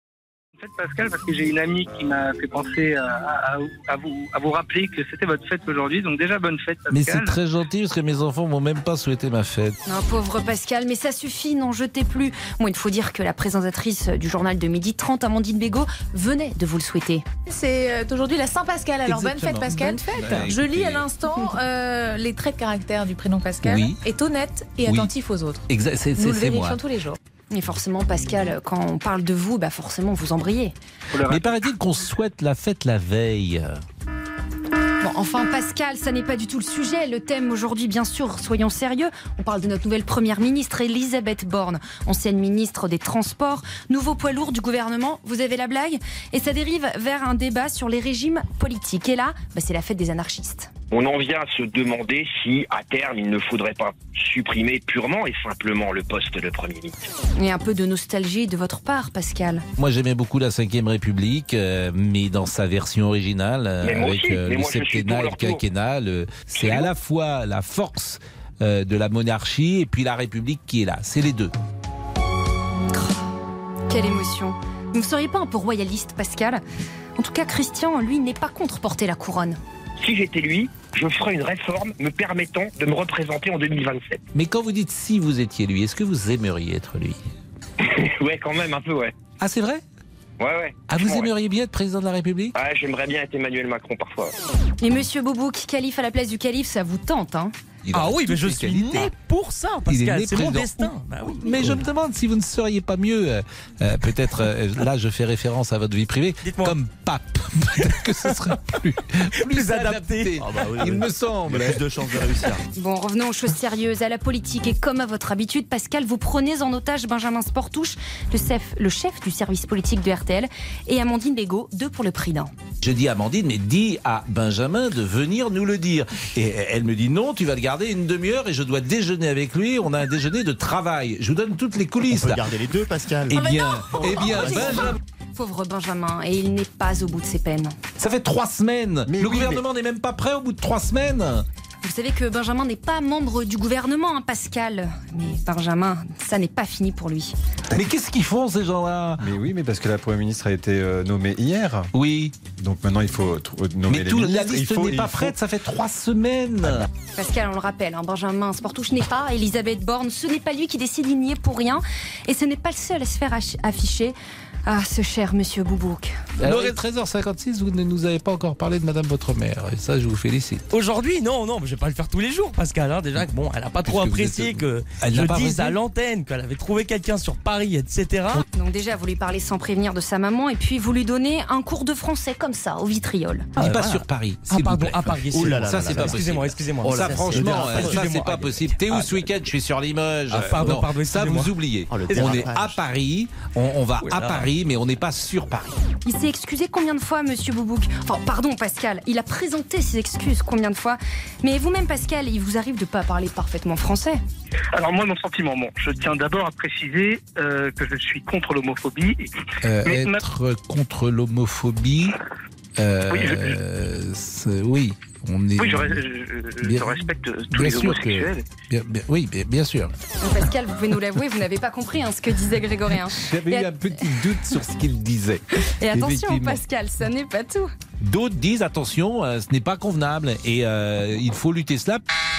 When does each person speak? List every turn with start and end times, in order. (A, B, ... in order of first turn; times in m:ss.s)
0:00.6-0:07.4 A
0:06.9-0:09.8 B
0:09.9-0:17.2 C
0:17.5-0:27.2 D
0:19.1-0:21.1 B
0:23.6-0:24.0 B
0:24.9-0:25.1 B
0:25.7-0:26.8 B
0:27.5-0:30.8 C
0:31.1-0:31.5 A
0:31.3-0:33.8 B
0:35.0-0:50.7 C
0:50.9-0:57.0 E
0:57.4-0:59.6 C
0:59.8-1:11.5 B
1:03.8-1:05.6 E
1:06.5-1:06.9 E
1:12.9-1:13.2 C
1:13.9-1:16.6 C
1:17.2-1:19.6 C
1:20.0-1:24.2 E
1:24.3-1:27.2 B
1:27.8-1:29.2 E
1:29.4-1:29.8 B
1:30.4-1:31.3 E
1:30.9-1:32.5 B
1:32.6-1:34.3 E
1:34.8-1:37.5 C
1:37.8-1:39.1 B
1:37.9-1:41.8 F
1:39.9-1:52.3 B
1:46.4-1:46.8 F
1:47.8-1:48.5 F
1:49.4-1:50.7 F
1:50.4-1:52.6 G
1:52.7-2:02.5 C
2:02.8-2:12.4 B
2:12.1-2:13.6 G
2:13.3-2:15.0 B
2:13.4-2:14.8 D
2:15.4-2:17.7 C
2:18.0-2:21.5 B
2:19.1-2:19.6 H
2:21.8-2:27.3 C
2:27.7-2:29.3 B
2:29.2-2:31.9 H
2:31.9-2:32.4 B
2:32.5-2:35.4 H
2:33.9-2:36.9 B
2:37.2-2:46.2 C
2:46.4-2:46.8 F
2:46.4-2:50.6 B
2:50.7-2:58.4 F
2:53.8-2:55.8 B
2:58.5-3:03.5 C
3:03.6-3:09.2 F
3:03.6-3:15.7 B
3:05.3-3:08.1 G
3:10.3-3:12.4 F
3:10.4-3:10.7 G
3:11.9-3:12.8 G
3:14.0-3:14.5 F
3:16.0-3:24.2 C
3:24.7-3:29.3 A
3:29.6-3:32.2 B
3:29.8-3:30.2 A
3:32.8-3:36.0 B
3:33.1-3:33.6 A
3:35.6-3:38.5 A
3:36.6-3:39.9 B
3:40.2-3:44.4 C
3:43.1-3:46.6 B
3:45.6-3:47.7 C
3:48.0-3:52.0 B